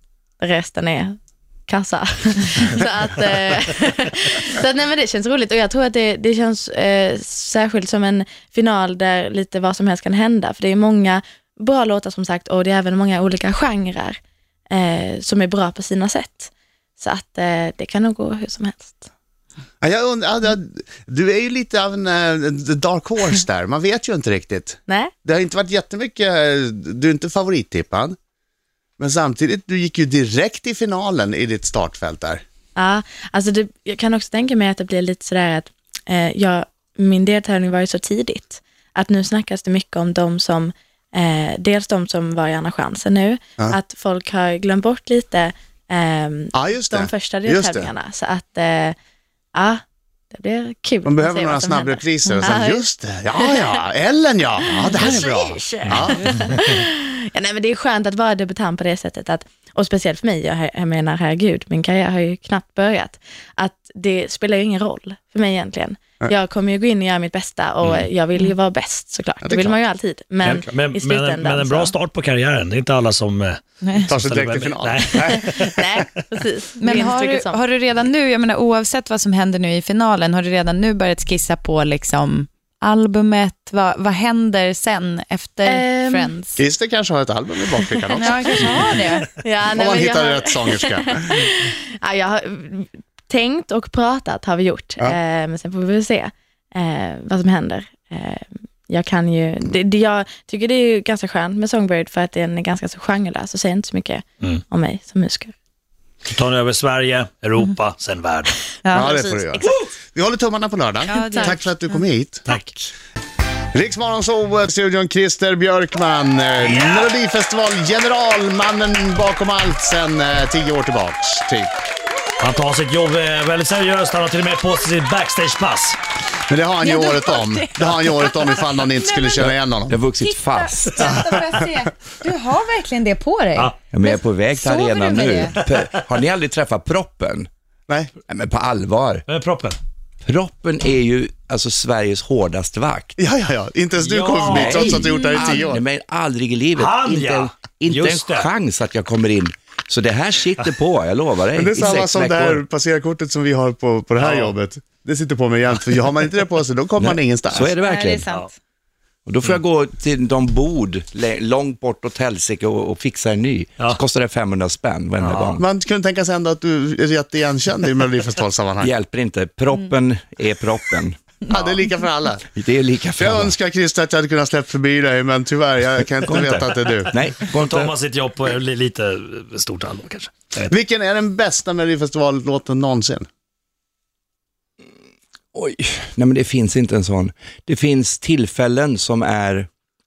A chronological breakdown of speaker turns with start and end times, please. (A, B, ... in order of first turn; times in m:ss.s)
0:00.4-0:14.2 A
0:14.7-0:19.1 A
0:19.8-0:28.2 B
0:29.0-0:32.4 B
0:32.8-0:49.0 A
0:46.5-0:47.9 B
0:49.5-0:53.8 A
0:51.0-0:56.3 B
0:54.6-1:11.9 A
1:07.8-1:08.1 C
1:09.4-1:09.8 B
1:10.4-1:15.8 C
1:14.0-1:15.7 B
1:15.1-1:17.6 A
1:16.8-1:26.6 D
1:25.6-1:26.3 A
1:26.6-1:29.0 B
1:28.1-1:45.5 A
1:28.1-1:29.3 D
1:29.8-1:31.2 B
1:46.3-1:48.6 C
1:48.8-1:49.1 D
1:48.9-1:52.4 B
1:48.9-1:49.7 A
1:51.0-1:52.0 D
1:51.1-1:51.6 A
1:52.5-1:52.7 C
1:53.7-2:01.7 B
1:56.6-1:57.1 C
2:02.4-2:06.0 C
2:06.4-2:10.0 B
2:06.8-2:09.4 D
2:09.4-2:11.2 E
2:10.2-2:15.5 D
2:11.0-2:11.6 B
2:13.9-2:17.5 E
2:18.3-2:19.2 E
2:19.3-2:19.8 C
2:20.2-2:23.2 E
2:23.2-2:25.8 B
2:24.0-2:25.0 C
2:24.4-2:32.6 E
2:25.0-2:25.5 D
2:26.8-2:28.5 C
2:31.5-2:37.7 B
2:34.2-2:34.5 C
2:37.0-2:38.3 E
2:37.8-2:38.5 D
2:39.2-2:45.6 E
2:45.2-2:45.6 C
2:45.5-2:48.9 B
2:48.8-2:51.2 E
2:51.5-2:52.5 B
2:52.5-2:53.6 E
2:53.2-2:57.1 B
2:56.3-2:57.9 E
2:56.4-3:00.7 C
3:00.7-3:03.3 B
3:05.5-3:09.7 E